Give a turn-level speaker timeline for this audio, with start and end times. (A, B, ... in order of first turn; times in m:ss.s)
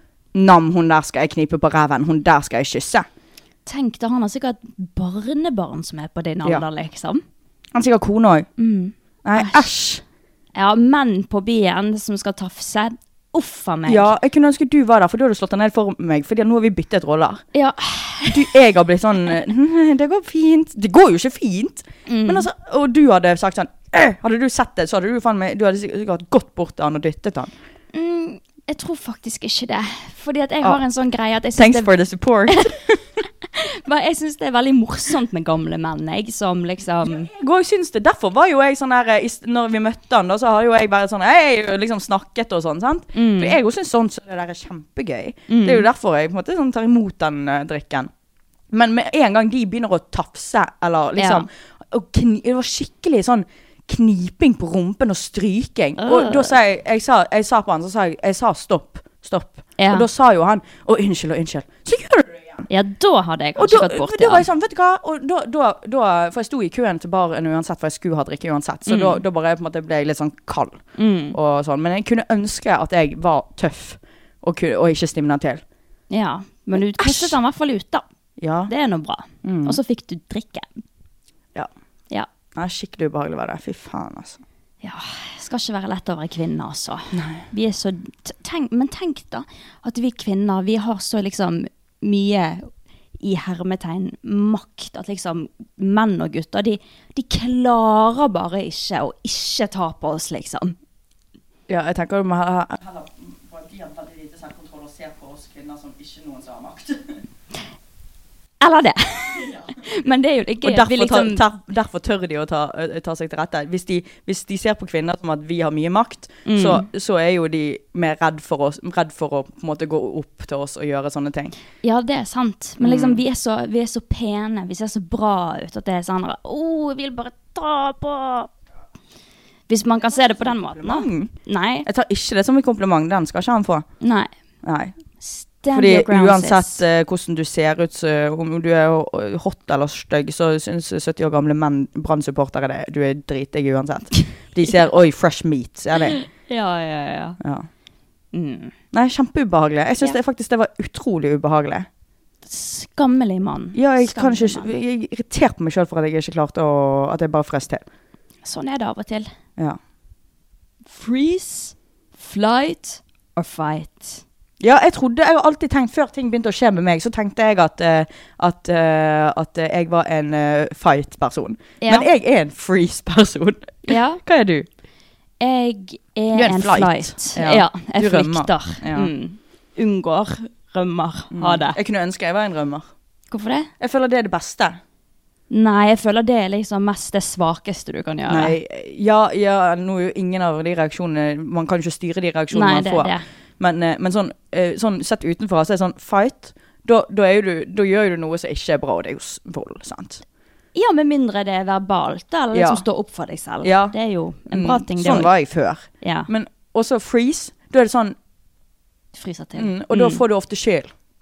0:00.3-0:03.1 A
0:03.7-0:07.2 B
0:07.8-0:08.5 A
0:08.6-0:09.7 B
0:09.2-0:10.0 A
0:10.6-0:14.1 B
0:13.9-0:17.4 A
0:17.5-0:18.4 B
0:18.3-0:27.5 A
0:22.1-0:22.5 B
0:27.9-0:31.9 B
0:31.6-0:33.0 A
0:33.5-0:37.3 B
0:37.1-0:48.1 A
0:43.2-0:43.6 B
0:45.5-0:45.9 B
0:48.7-1:02.7 A
0:51.2-0:51.4 B
0:56.0-0:56.5 B
0:59.8-1:00.1 B
1:02.7-1:04.5 B
1:03.6-1:15.6 A
1:08.9-1:09.2 B
1:11.0-1:11.4 B
1:16.1-1:18.0 B
1:17.0-1:17.4 A
1:18.4-1:18.7 A
1:18.7-1:20.7 B
1:19.4-1:19.8 A
1:22.6-1:24.4 A
1:24.8-1:32.7 B
1:27.1-1:27.5 A
1:33.2-1:40.8 B
1:41.7-1:47.2 A
1:48.6-1:51.4 B
1:50.6-2:01.5 A
1:56.4-1:56.8 B
2:01.8-2:08.5 B
2:02.8-2:03.2 A
2:09.7-2:11.9 B
2:10.8-2:11.3 A
2:11.8-2:13.9 A
2:14.0-2:14.3 B
2:14.6-2:14.9 A
2:15.2-2:16.8 B
2:15.7-2:26.2 A
2:26.1-2:27.4 B
2:27.4-2:27.7 A
2:28.3-2:28.7 B
2:28.9-2:31.9 A
2:32.5-2:34.7 B
2:33.8-2:37.8 A
2:38.4-2:39.3 B
2:40.9-2:44.2 B
2:44.6-2:54.7 A
2:51.8-2:52.1 B
2:53.9-2:54.2 B
2:55.4-3:01.8 B
2:56.3-2:59.1 A
3:01.3-3:02.9 A
3:03.3-3:03.7 B
3:03.8-3:04.8 A
3:05.5-3:08.6 B
3:08.3-3:20.2 A
3:12.5-3:13.2 B
3:20.8-3:25.3 B
3:22.5-3:22.8 A
3:23.6-3:24.0 A
3:24.5-3:28.2 A
3:26.0-3:26.3 B
3:29.2-3:30.2 B
3:29.6-3:30.9 A